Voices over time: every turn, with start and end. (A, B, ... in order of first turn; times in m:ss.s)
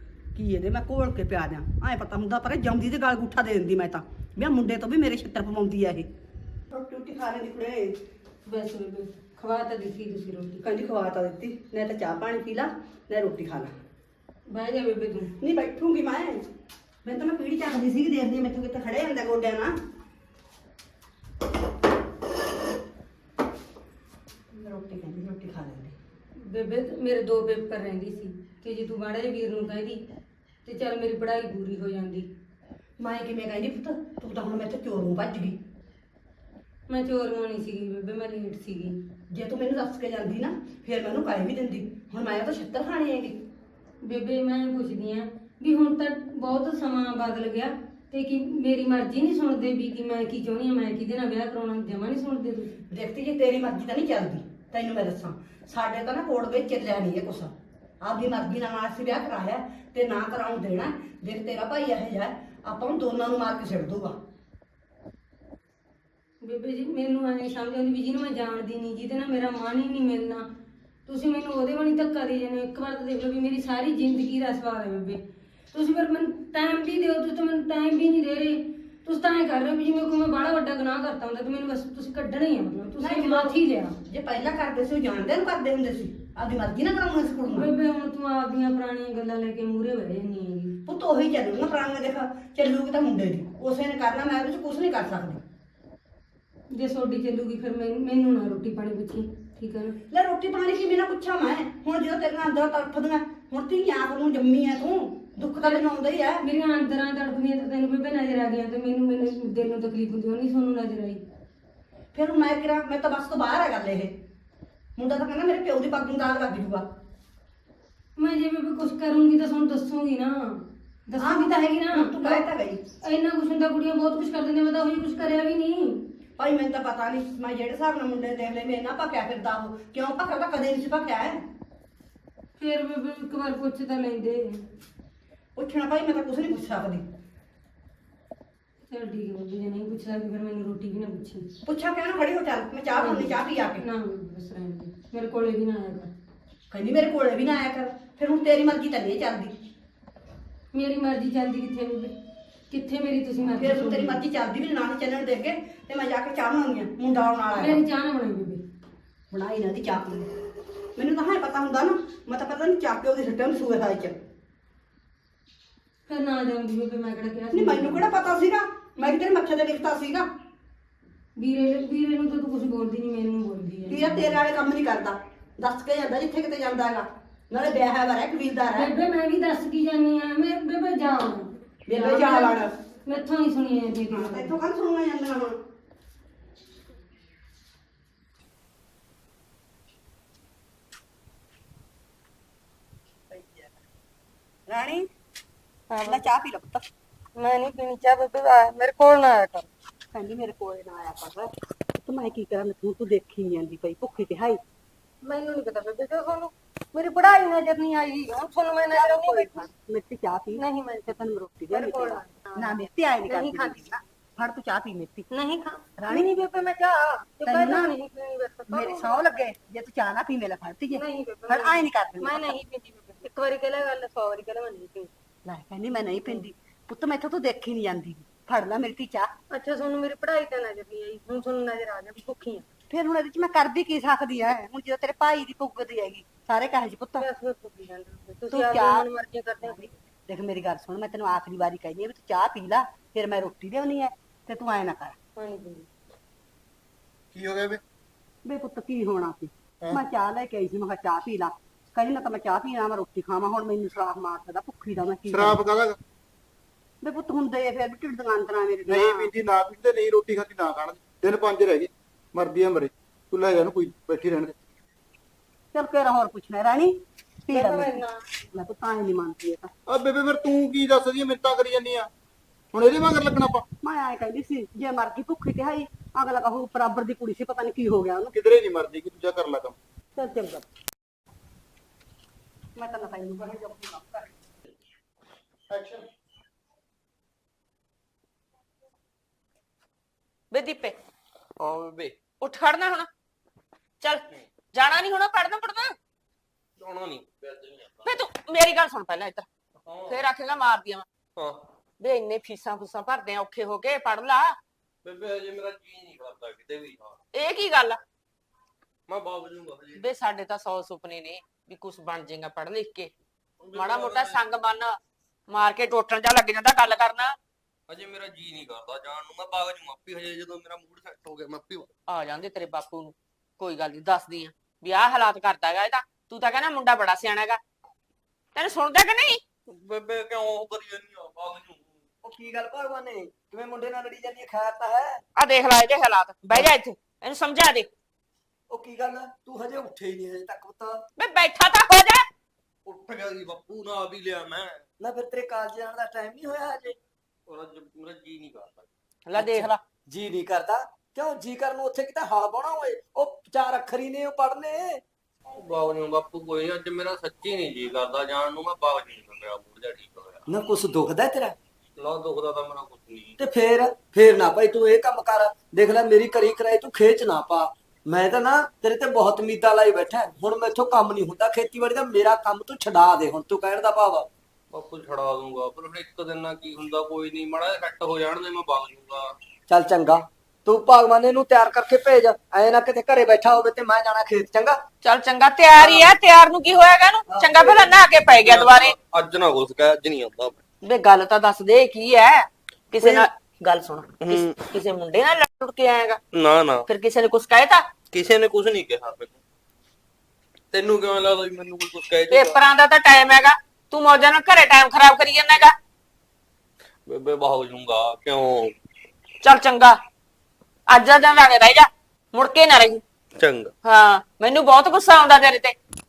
0:00.4-0:06.1 A
0:06.7-0:08.0 A
0:08.5-0:10.6 B
0:10.6-0:13.7 A
0:14.5-0:15.3 B
0:15.4-0:16.4 A
0:17.0-0:19.7 A
0:24.5-0:26.0 A
0:26.4-0:30.0 B
0:30.6-0:32.3 B
0:33.0-0:35.6 A
0:36.9-0:39.0 B
0:39.3-0:43.4 A
0:44.0-0:52.8 B
0:52.9-1:04.2 A
1:06.4-1:10.5 B
1:11.1-1:15.2 B
1:15.7-1:24.0 B
1:23.0-1:23.6 A
1:24.1-1:27.7 A
1:27.5-1:30.8 B
1:30.9-1:35.4 A
1:36.7-1:39.9 B
1:40.1-1:46.4 A
1:46.4-1:51.2 B
1:52.1-1:54.1 A
1:55.0-1:56.9 A
1:58.2-2:02.4 B
2:01.2-2:02.8 A
2:03.0-2:06.0 B
2:06.4-2:11.4 A
2:12.6-2:14.6 B
2:15.6-2:17.0 A
2:18.9-2:21.5 B
2:21.7-2:23.8 A
2:22.9-2:26.1 B
2:26.7-2:29.5 A
2:30.7-2:32.1 B
2:32.7-2:34.2 B
2:33.4-2:37.8 A
2:37.6-2:38.6 B
2:39.3-2:40.3 A
2:41.0-2:44.2 A
2:46.1-2:48.0 B
2:47.5-2:50.3 A
2:51.4-2:54.4 B
2:53.9-2:58.9 A
2:58.7-3:04.5 B
3:01.9-3:02.7 A
3:04.1-3:05.6 A
3:13.3-3:13.7 A
3:14.7-3:15.1 A
3:15.9-3:16.2 B
3:16.0-3:16.8 A
3:17.4-3:19.7 B
3:20.1-3:21.5 A
3:22.0-3:24.6 A
3:25.2-3:29.7 B
3:28.9-3:35.3 A
3:30.6-3:31.2 B
3:31.7-3:32.8 B
3:33.3-3:33.8 B
3:35.3-3:39.2 B
3:36.0-3:36.3 A
3:37.5-3:37.9 A
3:38.7-3:42.5 A
3:40.9-3:45.1 B
3:45.4-3:49.3 A
3:49.5-3:52.6 B
3:52.9-3:57.2 A
3:57.2-3:59.9 B
3:58.5-3:59.0 A
3:59.6-4:05.2 A
4:05.4-4:05.9 B
4:07.3-4:07.8 C
4:08.4-4:15.6 A
4:15.3-4:16.0 C
4:17.0-4:19.3 A
4:18.9-4:24.5 C
4:25.7-4:28.0 A
4:27.5-4:28.2 B
4:28.5-4:29.7 A
4:29.9-4:32.1 C
4:32.7-4:33.6 C
4:33.8-4:38.3 A
4:38.3-4:39.8 C
4:40.2-4:40.6 A
4:42.8-4:44.3 A
4:45.7-4:46.0 C
4:50.5-4:51.0 D
4:51.6-4:52.2 E
4:52.4-4:53.1 D
4:54.0-4:56.0 D
4:56.8-4:58.2 E
4:58.0-4:59.5 D
4:59.9-5:00.3 E
5:00.1-5:01.1 D
5:02.0-5:04.6 D
5:05.0-5:07.2 E
5:07.3-5:08.0 D
5:09.1-5:10.0 E
5:10.0-5:13.1 D
5:13.6-5:14.4 E
5:13.7-5:15.0 D
5:15.5-5:17.4 D
5:17.9-5:21.9 E
5:22.1-5:27.6 D
5:28.6-5:29.4 D
5:29.7-5:32.0 E
5:32.2-5:35.2 F
5:35.4-5:37.9 D
5:38.7-5:41.0 F
5:41.2-5:42.2 D
5:42.9-5:44.8 E
5:45.0-5:47.0 F
5:47.5-5:48.9 E
5:49.3-5:49.8 D
5:49.3-5:55.0 F
5:55.5-6:00.4 E
6:00.5-6:01.6 F
6:02.0-6:03.4 E
6:03.4-6:14.3 F
6:14.7-6:19.3 E
6:19.7-6:24.8 F
6:25.0-6:29.0 D
6:27.3-6:27.6 F
6:27.6-6:30.6 E
6:30.8-6:36.2 D
6:33.0-6:33.3 E
6:34.2-6:34.6 E
6:36.3-6:36.8 E
6:36.9-6:37.8 D
6:38.1-6:39.4 E
6:40.7-6:42.6 E
6:42.3-6:45.7 D
6:47.1-6:48.8 E
6:49.4-6:50.0 D
6:50.9-6:53.0 D
6:53.4-6:53.7 E
6:53.8-6:55.8 D